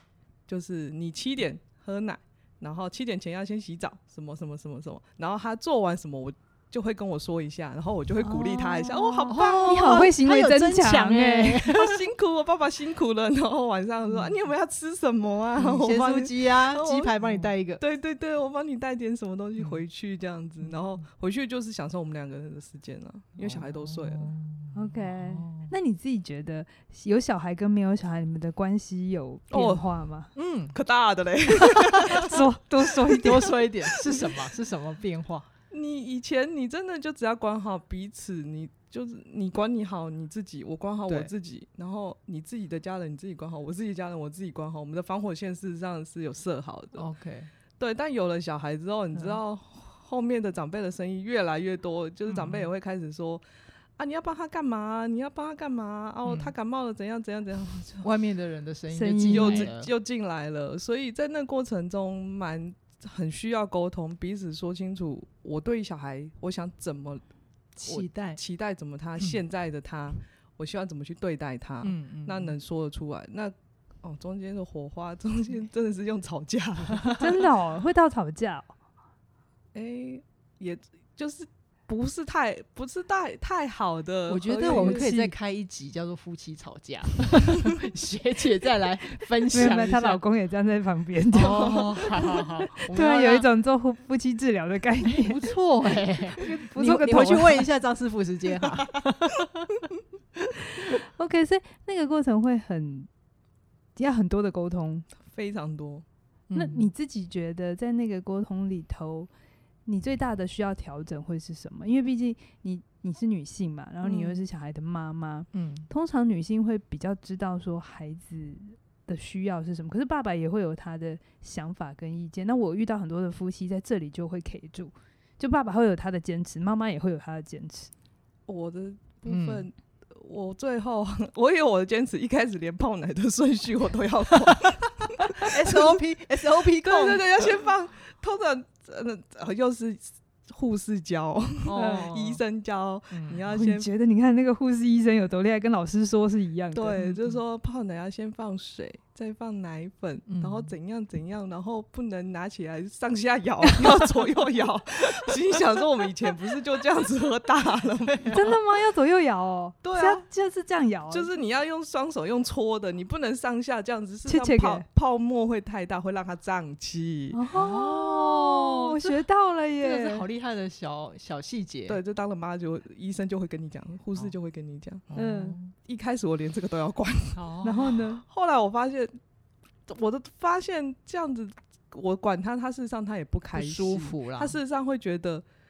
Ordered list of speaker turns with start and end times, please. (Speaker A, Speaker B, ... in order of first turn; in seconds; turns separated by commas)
Speaker A: 0.5-10.0, Speaker B: 8.2-11.7, Speaker C: 9.2-12.0, Speaker A: 11.7-24.3, Speaker C: 14.1-14.3, Speaker C: 15.6-17.8, Speaker C: 19.6-19.8, Speaker C: 23.4-25.7, Speaker B: 24.7-30.3, Speaker A: 29.5-29.8, Speaker C: 30.4-30.8, Speaker A: 30.7-32.4, Speaker C: 31.8-32.3, Speaker B: 32.1-33.6, Speaker C: 33.1-35.5, Speaker A: 33.2-34.4, Speaker A: 35.7-47.1, Speaker C: 47.0-47.5, Speaker A: 47.8-53.4, Speaker C: 52.3-52.7, Speaker A: 54.0-58.1, Speaker C: 56.2-56.5, Speaker C: 58.0-59.9, Speaker B: 58.9-59.7, Speaker A: 59.3-67.2, Speaker C: 67.8-68.4, Speaker A: 67.8-77.3, Speaker C: 71.8-72.6, Speaker B: 77.2-78.7, Speaker A: 79.7-85.1, Speaker C: 84.3-90.2, Speaker B: 84.7-85.3, Speaker B: 89.5-95.4, Speaker C: 91.3-93.5, Speaker A: 91.4-92.0, Speaker C: 95.1-99.8, Speaker B: 96.4-97.7, Speaker B: 100.8-103.1, Speaker B: 104.0-105.1, Speaker A: 105.2-106.0, Speaker C: 106.5-106.9, Speaker B: 106.5-109.3, Speaker B: 109.9-127.9, Speaker A: 114.0-114.4, Speaker C: 115.5-115.9, Speaker A: 128.5-143.9, Speaker C: 129.3-129.7, Speaker C: 135.4-137.6, Speaker C: 141.6-142.4, Speaker B: 141.8-142.1, Speaker C: 143.1-143.5, Speaker B: 143.5-147.0, Speaker A: 146.7-158.6, Speaker C: 147.0-147.4, Speaker C: 150.3-150.7, Speaker B: 153.7-154.1, Speaker C: 158.1-158.5, Speaker B: 158.3-161.3, Speaker A: 159.8-160.2, Speaker A: 161.1-167.4, Speaker B: 164.3-164.9, Speaker B: 167.3-170.3, Speaker C: 167.5-169.2, Speaker C: 169.8-172.0, Speaker A: 171.9-175.1, Speaker C: 175.1-175.7, Speaker B: 175.2-175.6, Speaker A: 175.9-177.4, Speaker C: 177.3-178.0, Speaker B: 177.6-178.2, Speaker A: 178.2-179.2, Speaker A: 179.9-185.4, Speaker C: 183.5-184.6